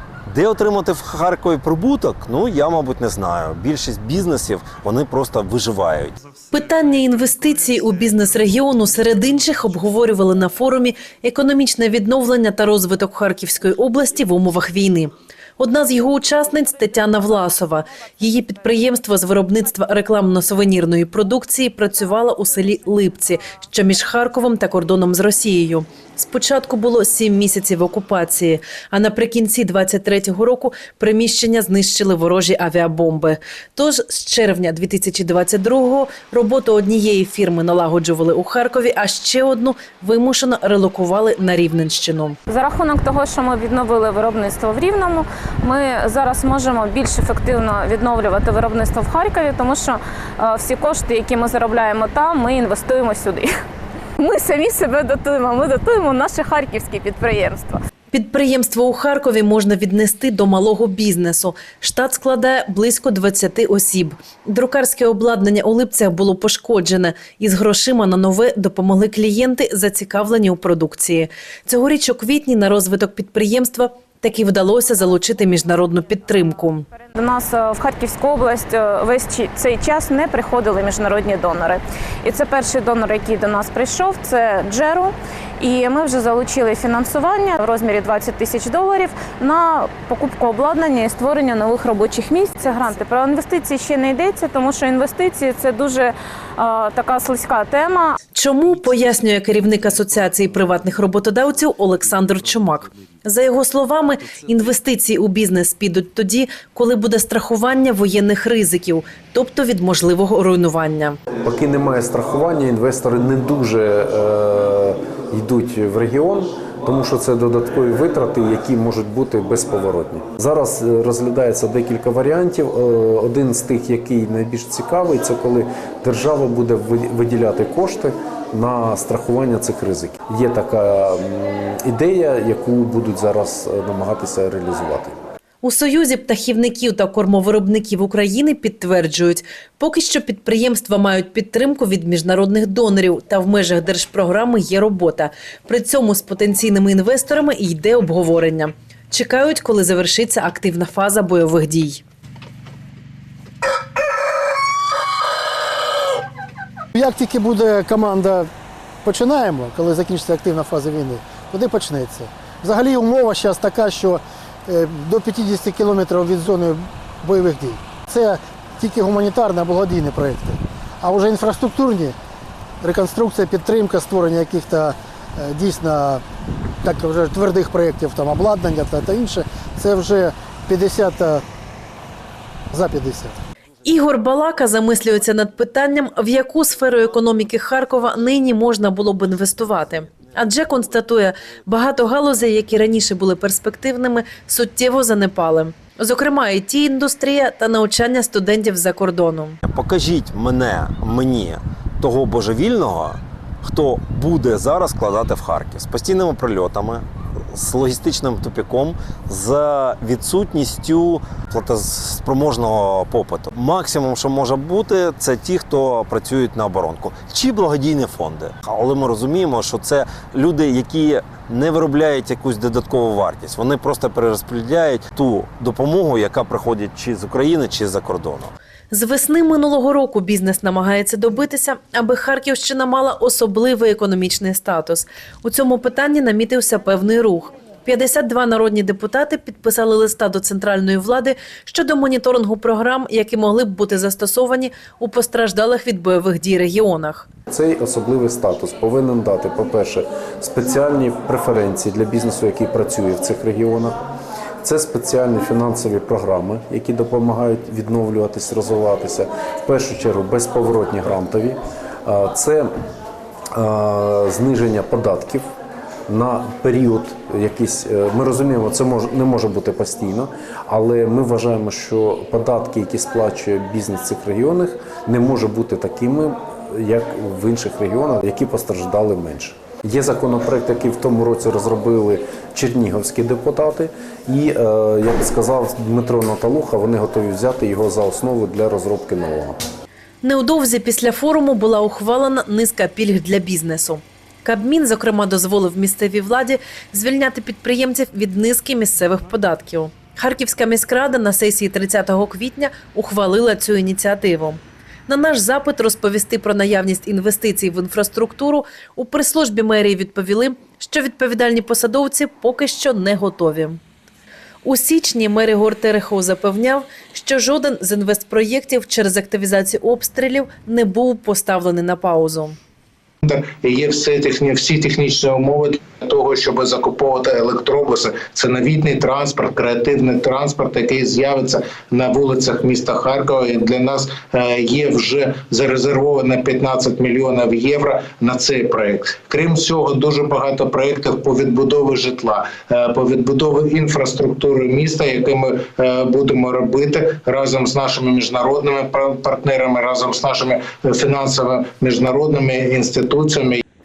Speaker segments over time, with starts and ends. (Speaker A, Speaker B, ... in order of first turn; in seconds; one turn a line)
Speaker A: 0.2-6.2
Speaker B: 6.5-42.4
Speaker C: 42.5-53.5
Speaker C: 54.2-57.8
Speaker B: 58.1-76.9
Speaker C: 77.1-98.2
Speaker B: 98.3-111.2
Speaker D: 111.4-135.2
Speaker B: 135.6-152.0
Speaker E: 156.9-158.5
Speaker E: 159.0-172.2
Speaker E: 172.8-176.2
Speaker E: 176.8-181.4
Speaker E: 182.7-183.4
Speaker B: 183.8-199.6
Speaker A: 199.6-228.5
Speaker B: 228.9-247.3
Speaker D: 247.5-254.0
Speaker D: 254.6-262.7
Speaker D: 263.5-265.5
Speaker D: 266.1-289.6
Speaker B: 290.2-313.8
Speaker B: 314.6-322.6
Speaker F: 323.2-353.6